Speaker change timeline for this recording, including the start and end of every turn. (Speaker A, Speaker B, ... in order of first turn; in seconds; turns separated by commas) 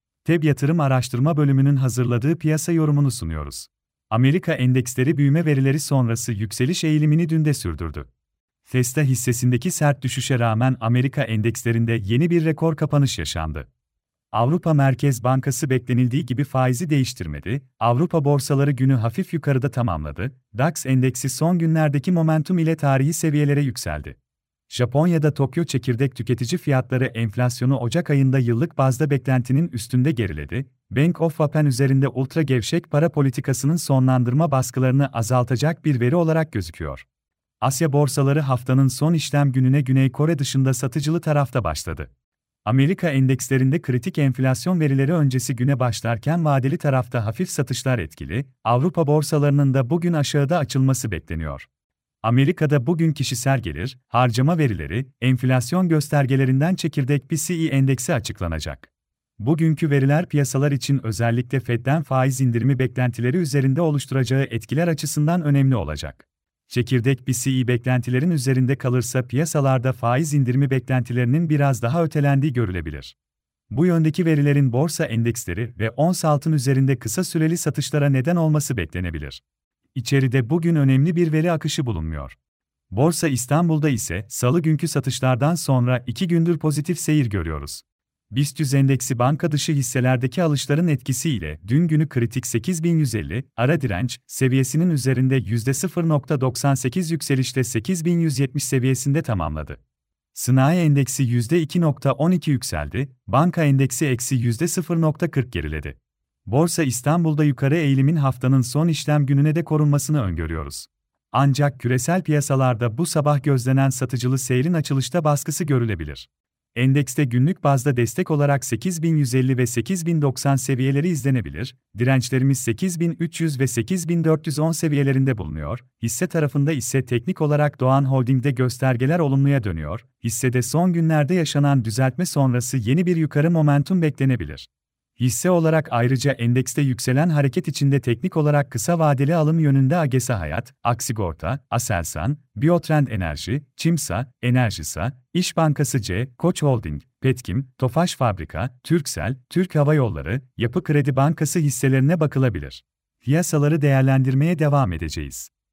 Speaker A: 0.2-8.1, Speaker A: 8.7-13.7, Speaker A: 14.3-24.2, Speaker A: 24.7-37.0, Speaker A: 37.6-42.1, Speaker A: 42.6-51.7, Speaker A: 52.2-73.1, Speaker A: 73.7-79.4, Speaker A: 79.9-82.3, Speaker A: 82.9-99.8, Speaker A: 100.3-155.5